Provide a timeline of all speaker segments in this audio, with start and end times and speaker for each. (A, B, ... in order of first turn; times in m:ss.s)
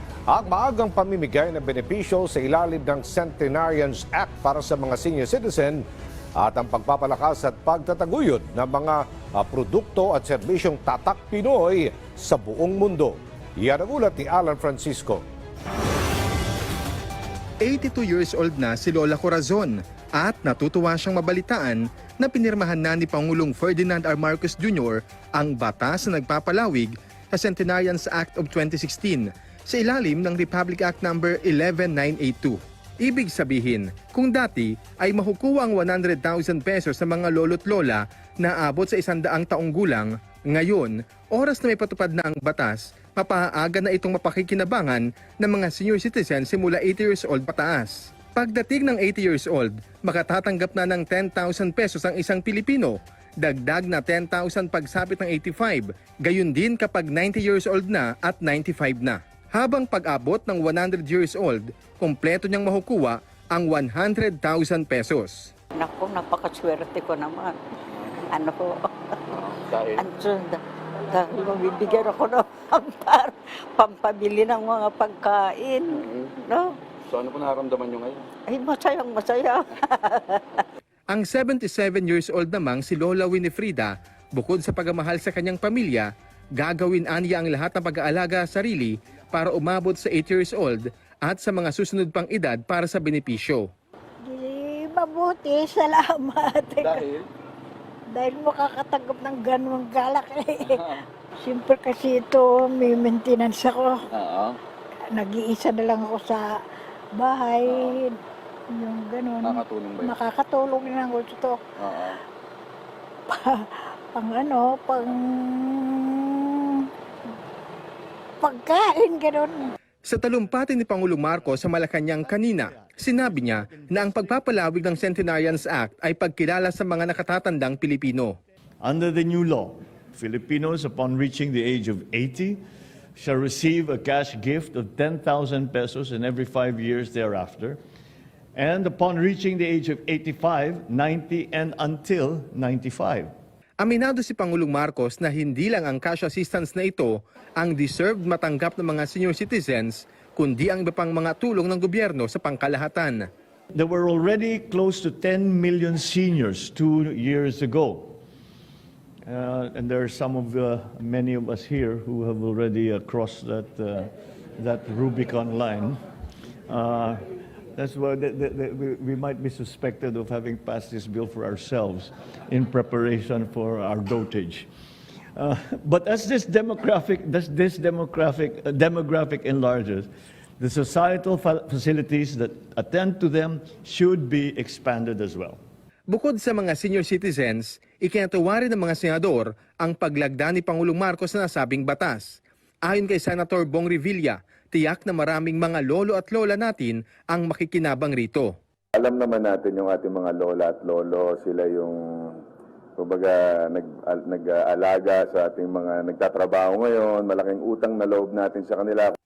0:00.3-0:05.8 A
0:06.4-0:15.2 A
0:17.6-1:05.5 B
1:05.8-1:07.6 C
1:08.3-1:08.9 C
1:09.3-1:10.0 D
1:09.9-1:16.8 C
1:15.9-1:16.3 D
1:17.0-1:18.3 D
1:18.5-1:20.6 C
1:21.1-1:33.7 B
1:34.2-1:37.0 E
1:36.8-1:37.2 D
1:38.1-1:40.8 E
1:40.6-1:41.0 D
1:41.4-1:44.0 E
1:44.1-1:44.6 D
1:45.1-1:46.5 E
1:47.2-1:48.2 E
1:47.6-1:48.0 D
1:48.7-1:51.6 E
1:49.4-1:50.2 D
1:51.8-1:52.2 D
1:53.3-1:56.9 E
1:58.4-1:59.7 E
2:00.0-2:08.4 B
2:02.2-2:04.8 F
2:08.8-2:12.6 F
2:13.2-2:17.8 F
2:18.6-2:23.3 F
2:23.8-2:33.3 B
2:33.7-2:38.2 F
2:39.3-2:46.0 F
2:46.7-2:47.2 F
2:47.8-2:54.7 F
2:55.4-3:05.6 F
3:06.1-3:18.6 B
3:19.0-3:22.4 G
3:23.0-3:29.2 G